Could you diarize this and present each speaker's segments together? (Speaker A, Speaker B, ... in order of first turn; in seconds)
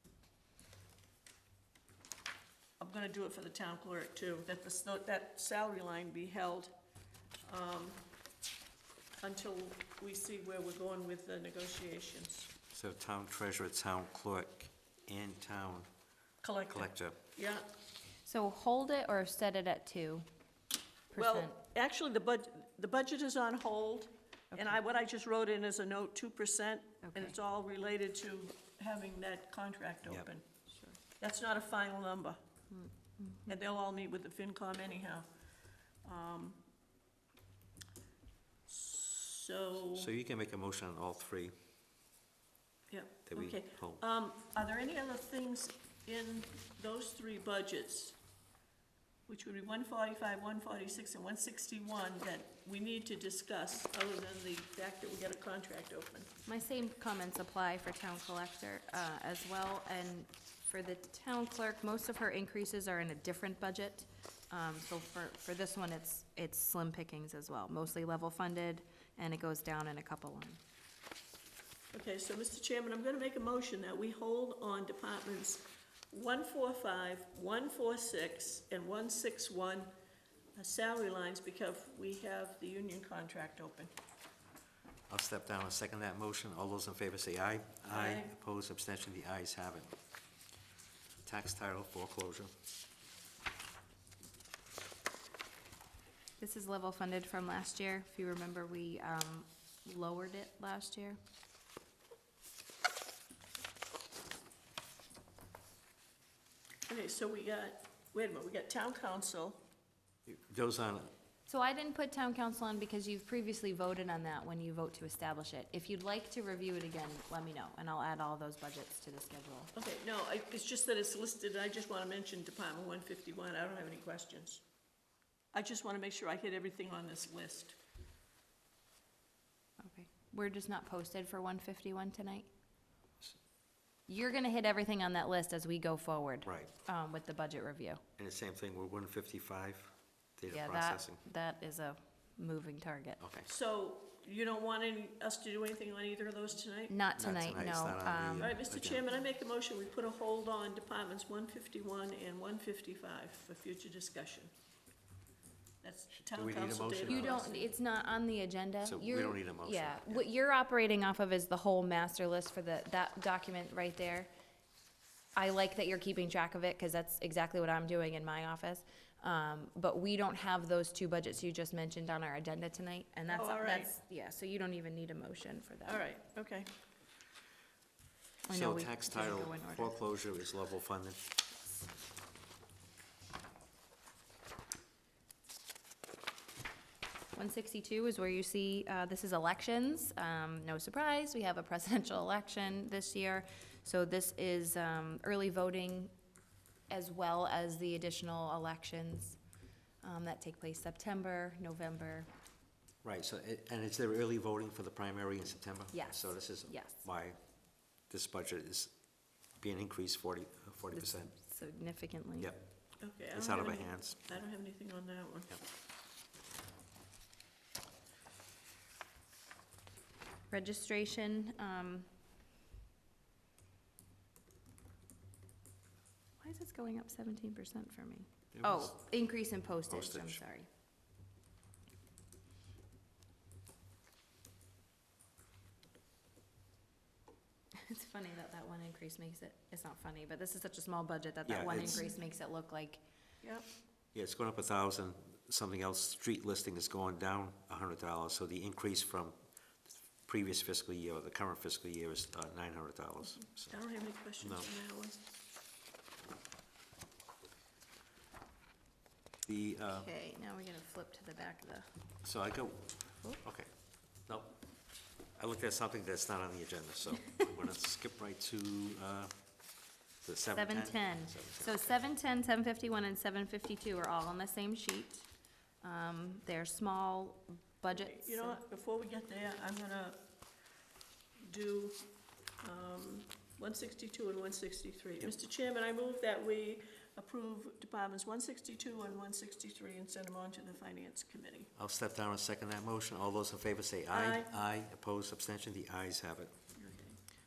Speaker A: 2.8-6.7, 7.4-8.0, 9.2-12.5, 16.4-17.7, 21.1-30.5, 31.1-32.4, 33.5-35.3, 36.0-36.6, 38.7-40.1, 42.9-48.2, 49.3-56.3, 71.9-79.9, 80.5-83.9, 87.9-88.3, 106.9-109.6, 119.7-124.6, 125.5-127.8, 143.4-146.9, 148.4-154.5, 155.8-157.7, 173.3-173.9, 175.8-176.7, 213.0-215.6, 243.4-243.7, 253.7-255.2, 277.9-280.2, 281.4-282.0, 282.6-291.7, 294.1-294.5, 296.7-297.2
Speaker B: 12.7-15.9, 16.7-17.2, 39.9-41.5, 43.3-44.0, 85.1-89.9, 91.2-92.5, 110.2-111.1, 136.4-136.7, 138.2-141.2, 143.2-143.5, 147.2-149.1, 156.2-157.5, 158.8-160.2, 178.5-181.3, 203.0-207.4, 207.9-209.0, 209.6-211.3, 212.4-212.6, 213.3-214.3, 228.5-229.0, 229.9-230.4, 241.4-242.1, 244.1-253.7, 254.4-254.7, 259.4-260.1, 262.2-264.6, 265.3-269.4, 270.2-272.0, 291.7-296.6
Speaker C: 18.2-20.2, 21.1-21.6, 27.0-27.4, 30.7-31.0, 32.7-33.5, 56.4-70.6, 96.4-101.2, 111.5-119.7, 129.8-132.5, 134.1-138.0, 140.5-143.2, 146.9-148.6, 157.1-164.3, 165.3-176.1, 178.4-180.0, 187.3-196.1, 196.9-199.4, 200.0-202.3, 205.9-207.0, 210.9-212.5, 220.5-222.1, 226.4-230.7, 237.8-243.0, 259.9-261.9, 270.5-275.3, 275.8-278.6